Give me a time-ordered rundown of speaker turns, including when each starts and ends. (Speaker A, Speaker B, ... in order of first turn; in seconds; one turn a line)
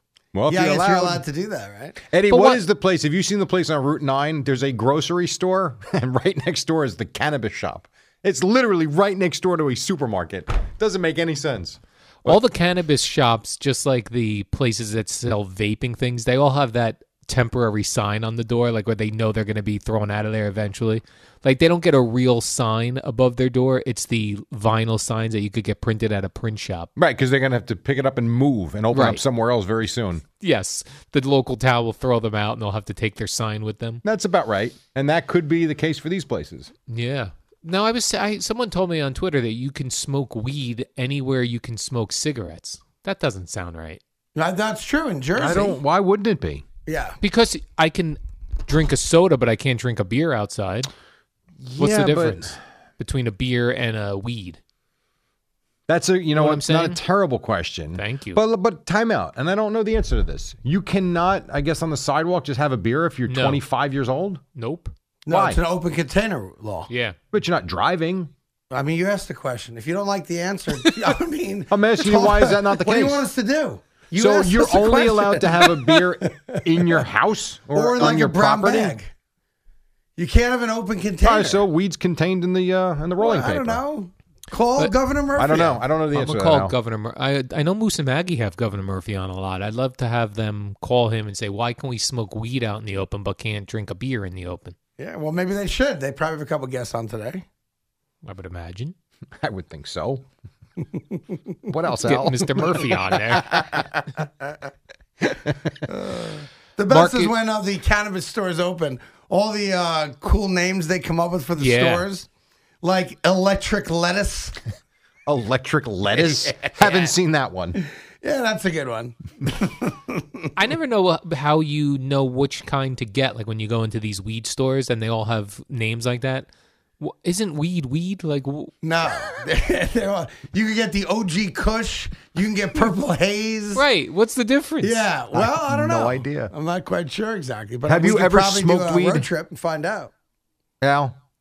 Speaker A: 0.3-1.2
Speaker B: 0.5-2.0
Speaker A: 2.0-12.4
Speaker C: 2.3-2.6
Speaker C: 12.2-26.9
Speaker A: 27.0-30.2
Speaker C: 28.9-29.2
Speaker C: 30.4-34.0
Speaker A: 34.0-36.7
Speaker C: 36.9-44.0
Speaker B: 44.4-45.8
Speaker A: 45.4-46.7
Speaker B: 46.9-47.2
Speaker C: 47.2-50.9
Speaker A: 51.6-52.6
Speaker C: 51.8-54.6
Speaker A: 55.9-64.4
Speaker C: 56.4-57.0
Speaker C: 58.0-58.4
Speaker C: 63.3-63.6
Speaker C: 64.6-64.9
Speaker B: 65.3-66.9
Speaker A: 65.3-65.6
Speaker C: 66.9-67.2
Speaker A: 67.3-68.3
Speaker B: 68.7-77.1
Speaker A: 71.7-73.2
Speaker A: 74.1-79.0
Speaker B: 77.7-79.1
Speaker B: 80.2-81.7
Speaker A: 81.2-83.8
Speaker B: 83.2-85.8
Speaker A: 85.4-86.8
Speaker C: 86.1-94.8
Speaker B: 95.0-97.4
Speaker C: 98.2-98.9
Speaker A: 99.4-100.2
Speaker A: 101.7-103.9
Speaker C: 102.0-103.7
Speaker A: 105.2-105.7
Speaker B: 105.9-112.3
Speaker C: 106.9-107.3
Speaker C: 111.6-112.1
Speaker B: 112.8-114.6
Speaker A: 115.3-117.8
Speaker B: 116.1-117.1
Speaker B: 117.8-120.4
Speaker C: 120.5-126.5
Speaker C: 127.0-128.7
Speaker B: 128.8-133.8
Speaker C: 133.7-135.1
Speaker B: 134.8-140.1
Speaker A: 135.3-136.5
Speaker A: 137.9-139.3
Speaker A: 140.8-141.2